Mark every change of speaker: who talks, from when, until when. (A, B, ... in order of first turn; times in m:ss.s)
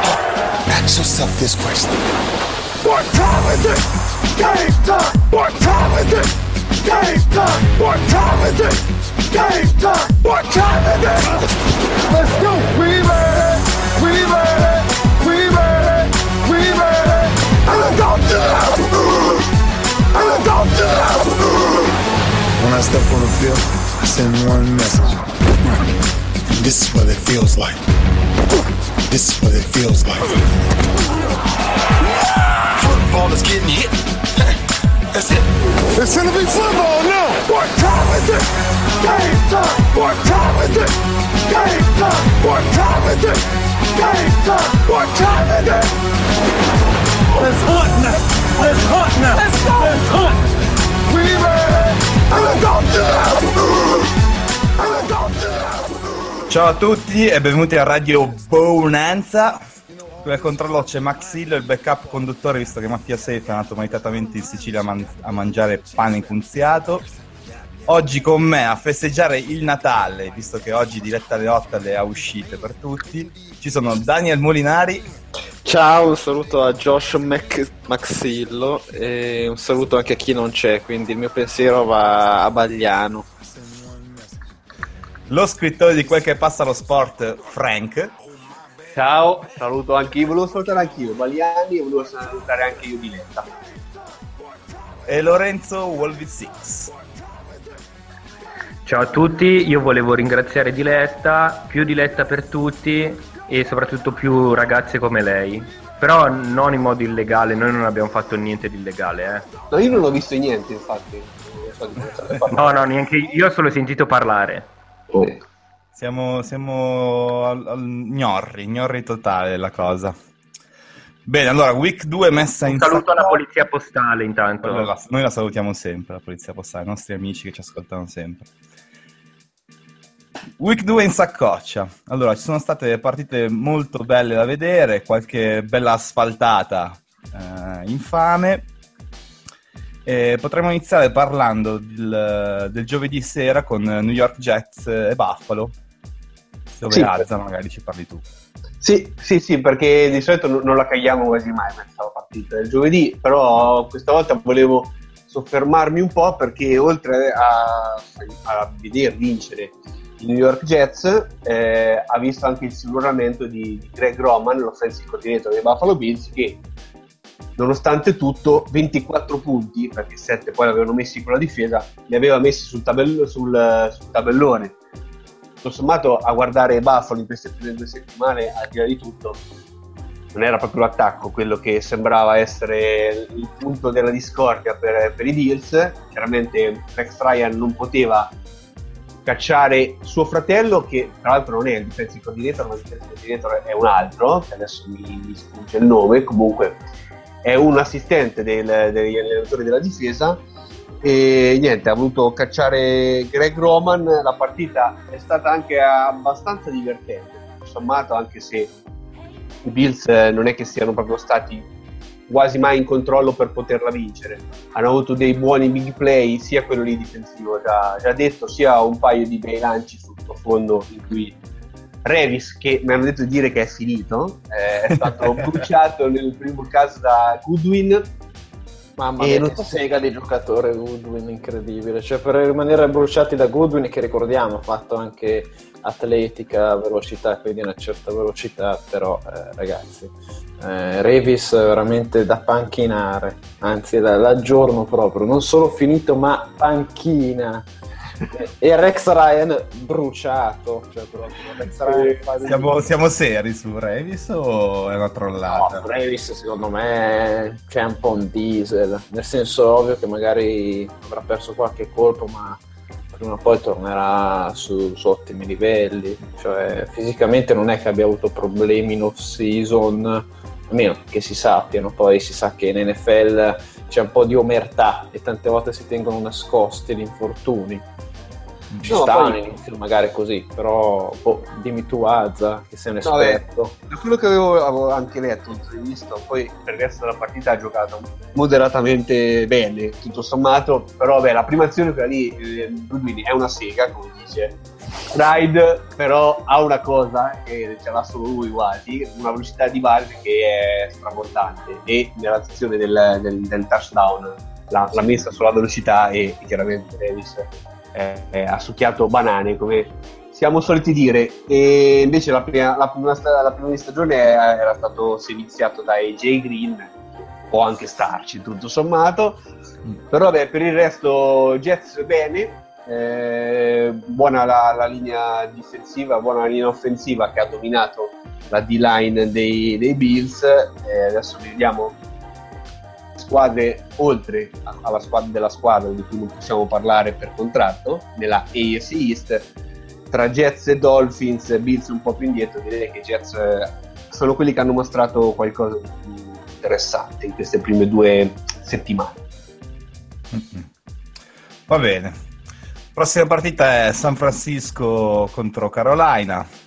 0:00.7-0:02.1 A
0:02.8-0:11.4 A
0:12.0-0:19.4 A
0:20.1-0:21.9 A
0:22.6-0:25.2 A
0:26.5-0:27.8 A
0:29.1-0:30.4 A
0:32.6-0:34.0 A
0:35.1-0:45.9 A
0:47.3-0:50.4 A
0:51.1-0:54.1 A
0:54.8-0:56.4 A
0:56.5-0:59.6 B
1:00.2-1:07.1 B
1:07.9-1:15.1 B
1:15.6-1:23.2 C
1:25.3-1:28.1 B
1:28.9-1:33.5 D
1:35.0-1:36.9 B
1:38.8-1:49.5 E
1:49.7-1:52.8 D
1:52.5-1:54.7 E
1:55.1-1:55.4 D
1:55.9-2:00.1 B
2:01.2-2:03.4 B
2:02.6-2:04.9 E
2:04.6-2:08.5 B
2:10.6-2:18.7 B
2:20.0-2:25.7 B
2:26.8-2:28.2 B
2:26.9-2:27.2 D
2:28.8-2:46.6 D
2:47.6-2:54.7 D
2:55.6-2:59.4 D
3:00.3-3:08.3 D
3:09.2-3:16.8 D
3:17.4-3:20.4 D
3:21.0-3:28.7 D
3:29.6-3:31.7 D
3:32.3-3:41.4 D
3:42.0-3:48.1 D
3:49.0-4:07.7 C
3:49.2-3:49.7 D
4:08.3-4:12.7 C
4:11.8-4:12.6 D
4:12.4-4:15.8 B
4:15.4-4:37.8 C
4:38.8-4:43.7 C
4:38.9-4:39.4 D
4:43.0-5:19.4 D
5:20.1-5:32.0 D
5:33.2-5:39.5 D
5:40.1-5:49.2 D
5:50.3-5:50.7 B
5:51.7-5:52.2 B
5:52.9-5:56.5 B